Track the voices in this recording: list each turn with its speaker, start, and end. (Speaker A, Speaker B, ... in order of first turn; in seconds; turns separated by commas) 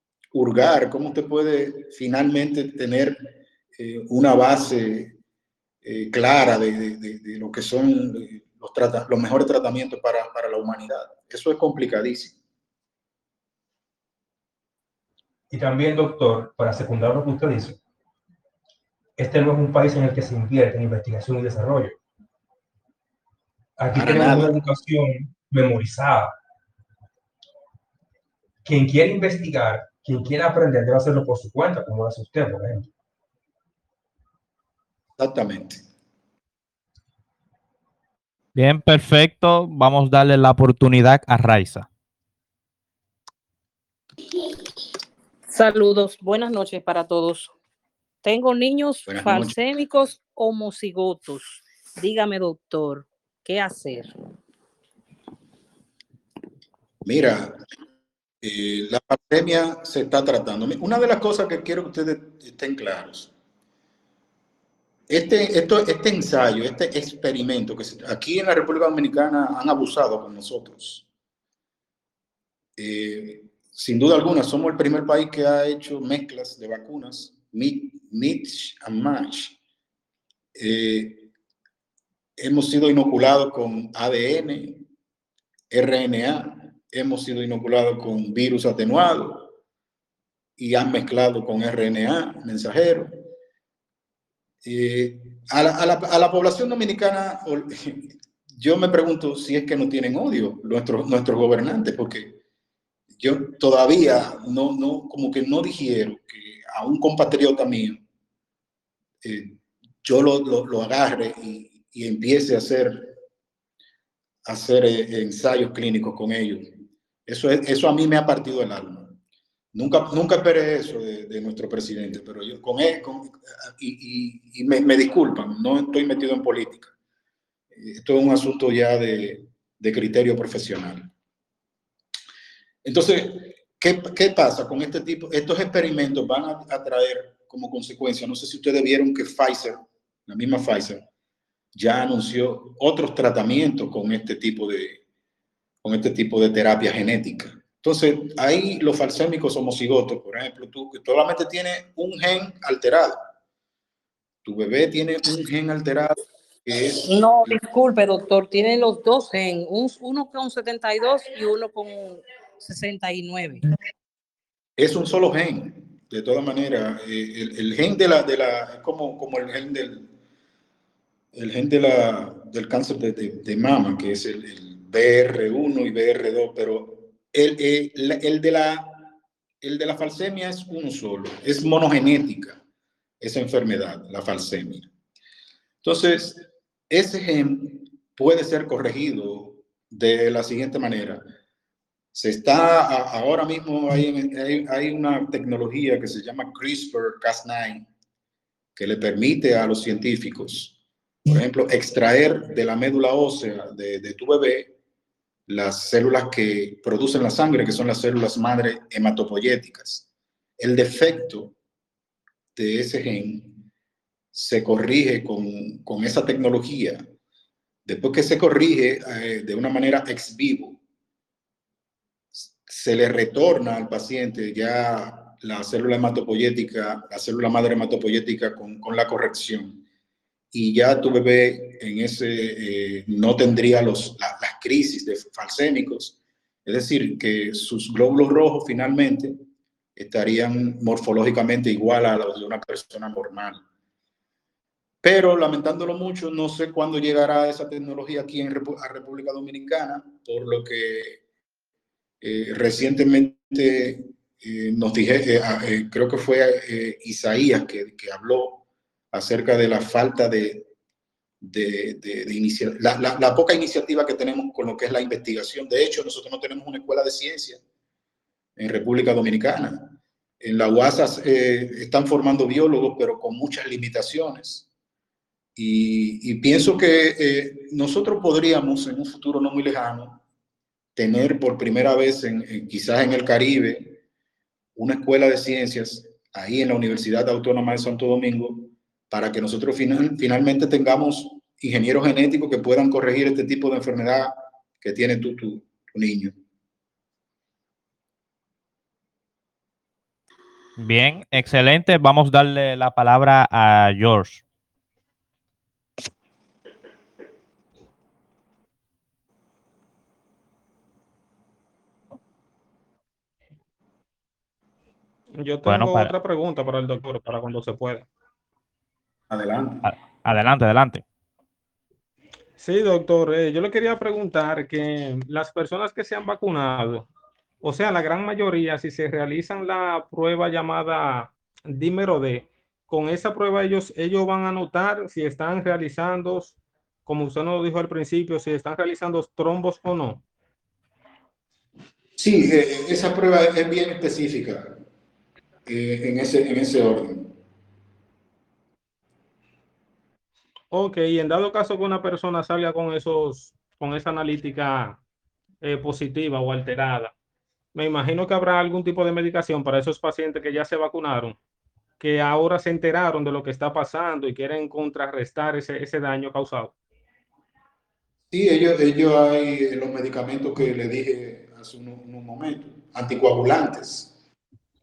Speaker A: 0.3-5.1, Speaker A: 5.8-12.4, Speaker B: 15.5-17.8, Speaker B: 19.2-22.0, Speaker B: 23.8-26.3, Speaker A: 23.9-24.5, Speaker B: 28.6-32.9, Speaker A: 35.2-35.8, Speaker C: 38.5-41.9, Speaker D: 45.5-47.5, Speaker D: 48.2-54.1, Speaker A: 49.1-49.6, Speaker A: 57.0-57.6, Speaker A: 58.4-63.3, Speaker A: 65.1-71.1, Speaker A: 72.8-79.6, Speaker A: 80.5-81.3, Speaker A: 82.4-84.8, Speaker A: 85.7-89.5, Speaker A: 90.6-93.2, Speaker A: 94.6-102.4, Speaker A: 103.2-108.0, Speaker A: 109.2-113.2, Speaker A: 114.4-119.2, Speaker A: 119.7-126.9, Speaker A: 127.7-131.1, Speaker A: 132.8-141.1, Speaker A: 141.7-145.0, Speaker A: 145.8-153.3, Speaker A: 154.4-157.6, Speaker D: 157.1-163.6, Speaker A: 164.8-170.1, Speaker A: 171.3-182.6, Speaker A: 183.2-184.9, Speaker A: 185.8-191.2, Speaker A: 192.1-197.9, Speaker A: 198.8-200.7, Speaker A: 201.3-204.7, Speaker A: 205.5-210.1, Speaker A: 210.6-211.5, Speaker A: 212.6-213.6, Speaker A: 214.3-217.1, Speaker A: 217.8-220.8, Speaker A: 222.3-229.8, Speaker A: 230.5-239.4, Speaker A: 239.9-243.6, Speaker A: 245.0-251.2, Speaker A: 252.2-260.7, Speaker A: 261.4-267.6, Speaker A: 268.6-274.6, Speaker A: 275.6-280.2, Speaker A: 280.9-284.0, Speaker A: 284.8-296.4, Speaker C: 300.8-304.4, Speaker E: 315.4-318.1, Speaker C: 315.6-316.1, Speaker A: 319.3-319.9, Speaker C: 319.8-321.1, Speaker E: 322.6-327.1, Speaker E: 327.6-340.2, Speaker A: 342.2-344.8, Speaker A: 345.6-347.4, Speaker E: 350.7-355.0, Speaker E: 355.6-357.1, Speaker E: 357.7-361.4, Speaker E: 362.0-366.7, Speaker A: 368.3-374.1